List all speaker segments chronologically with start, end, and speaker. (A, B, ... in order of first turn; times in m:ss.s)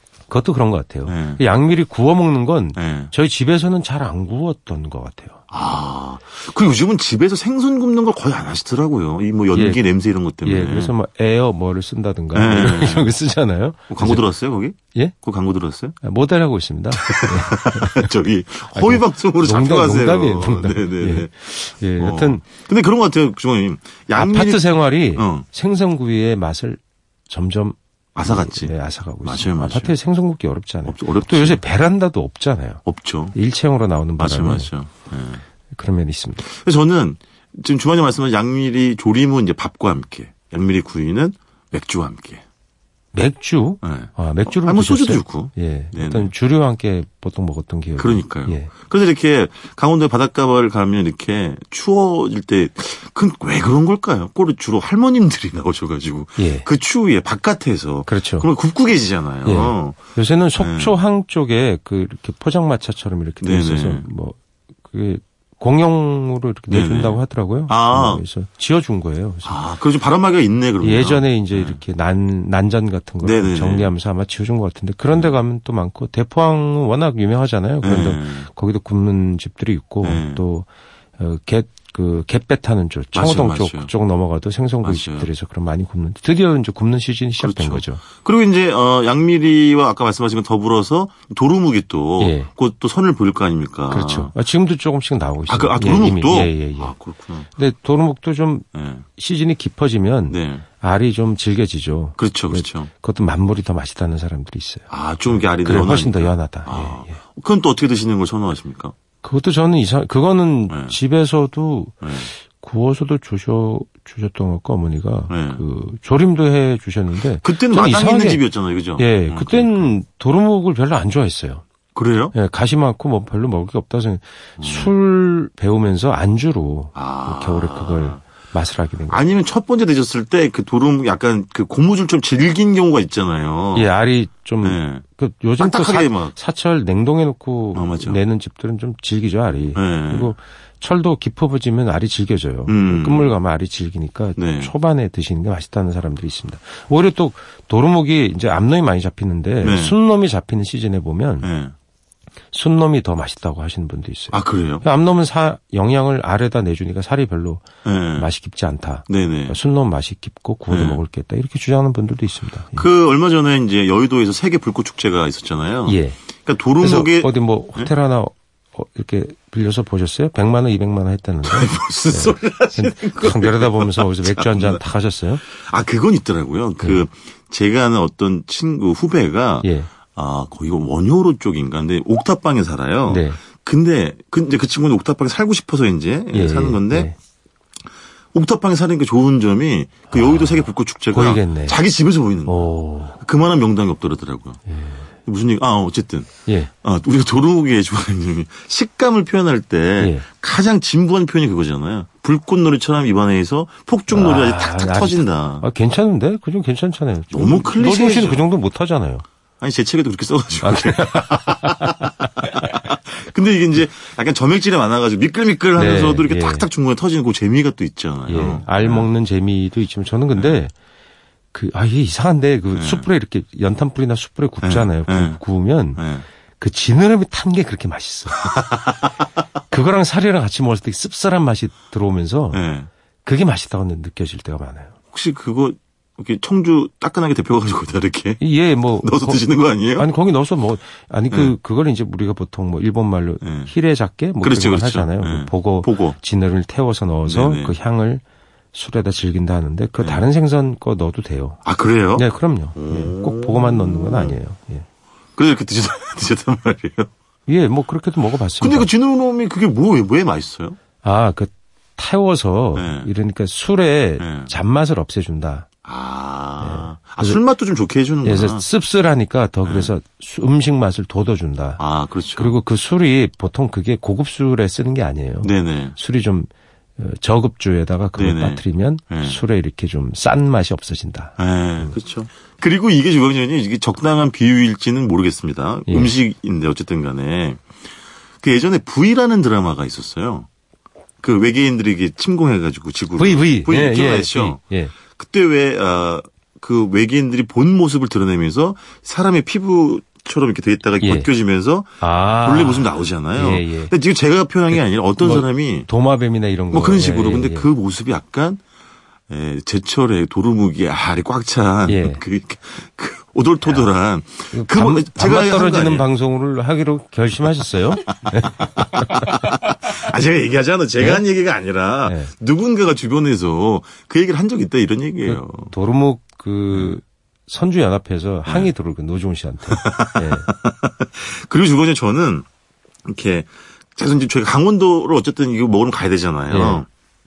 0:00.3-0:05.4 A
0:01.0-0:01.4 B
0:02.8-0:03.1 B
0:05.5-0:10.9 B
0:09.5-0:09.8 A
0:10.4-0:14.2 A
0:12.3-0:13.1 B
0:13.9-0:16.0 B
0:16.0-0:18.1 A
0:17.0-0:25.4 B
0:18.7-0:22.4 A
0:24.1-0:34.7 A
0:28.2-0:29.9 B
0:30.9-0:31.6 B
0:32.8-0:33.4 B
0:34.2-0:35.4 B
0:35.7-0:36.4 A
0:36.4-0:42.4 B
0:43.1-0:48.7 A
0:43.8-0:46.3 B
0:48.0-1:00.0 B
0:56.4-0:56.7 A
0:58.0-0:58.5 A
0:59.4-1:09.6 A
1:00.6-1:01.0 B
1:03.4-1:04.0 B
1:06.7-1:08.2 B
1:09.4-1:11.8 B
1:10.8-1:28.0 A
1:13.2-1:13.9 B
1:17.8-1:18.5 B
1:20.0-1:20.4 B
1:23.1-1:23.9 B
1:24.8-1:25.3 B
1:27.4-1:34.3 B
1:32.2-1:32.5 A
1:33.9-1:37.0 A
1:35.5-1:37.5 B
1:37.5-1:47.2 A
1:38.7-1:39.0 B
1:40.3-1:40.6 B
1:42.2-1:42.9 B
1:44.9-1:48.9 B
1:49.2-2:01.6 A
1:50.7-1:51.0 B
1:52.0-1:52.3 B
1:55.3-1:55.6 B
1:57.2-1:59.9 B
2:01.9-2:02.3 B
2:02.3-2:09.2 A
2:04.6-2:04.9 B
2:06.9-2:08.2 B
2:09.1-2:13.9 B
2:13.7-2:31.5 A
2:14.6-2:15.0 B
2:15.6-2:16.4 B
2:17.7-2:18.2 B
2:19.7-2:20.3 B
2:22.7-2:23.3 B
2:24.4-2:24.7 B
2:29.6-2:29.9 B
2:31.4-2:31.7 B
2:32.5-2:42.9 A
2:34.3-2:34.8 B
2:37.8-2:38.3 B
2:39.1-2:39.6 B
2:40.7-2:41.0 B
2:42.7-2:47.9 B
2:45.8-2:46.2 A
2:46.8-2:55.4 A
2:51.4-2:54.8 B
2:55.4-3:07.1 B
2:56.8-2:57.0 A
2:59.6-2:59.9 A
3:03.1-3:03.4 A
3:06.3-3:07.2 A
3:08.3-3:14.6 B
3:11.1-3:11.8 A
3:12.4-3:13.2 A
3:14.7-3:15.0 A
3:15.2-3:16.3 B
3:16.4-3:16.7 A
3:16.8-3:25.6 B
3:20.0-3:20.2 A
3:24.1-3:29.2 A
3:27.3-3:28.5 B
3:29.6-3:39.1 B
3:30.6-3:32.5 A
3:35.7-3:36.7 A
3:38.2-3:40.7 A
3:41.5-3:46.0 A
3:42.7-3:43.1 B
3:44.6-3:45.4 B
3:46.0-3:46.2 B
3:46.6-3:48.4 A
3:48.4-3:48.8 B
3:49.7-3:52.7 A
3:52.5-3:52.9 B
3:53.2-3:54.9 A
3:55.1-3:58.4 B
3:58.4-4:11.6 A
3:59.0-4:00.1 B
4:03.4-4:03.7 B
4:04.4-4:06.2 B
4:07.2-4:07.7 B
4:10.0-4:10.2 B
4:11.6-4:14.4 B
4:12.1-4:14.8 A
4:15.4-4:17.1 B
4:17.4-4:18.9 A
4:18.6-4:20.8 B
4:21.0-4:25.7 A
4:22.7-4:23.1 B
4:24.2-4:24.5 B
4:25.8-4:28.6 B
4:26.6-4:27.4 A
4:28.2-4:31.8 A
4:29.6-4:29.9 B
4:31.8-4:32.6 B
4:32.4-4:41.9 A
4:35.4-4:36.0 B
4:38.1-4:39.4 B
4:41.4-4:47.6 B
4:45.9-4:46.1 A
4:48.4-4:50.5 B
4:51.2-4:54.6 B
4:53.2-4:54.9 A
4:55.2-5:05.9 B
5:01.0-5:01.3 A
5:02.0-5:03.9 A
5:04.7-5:07.7 A
5:06.7-5:08.6 B
5:09.3-5:16.0 B
5:11.9-5:12.2 A
5:13.6-5:13.9 A
5:14.5-5:19.3 A
5:18.8-5:25.7 B
5:21.0-5:21.2 A
5:22.0-5:22.3 A
5:25.3-5:30.5 A
5:26.7-5:27.0 B
5:28.4-5:28.7 B
5:29.7-5:32.4 B
5:33.0-5:36.9 B
5:36.5-5:36.8 A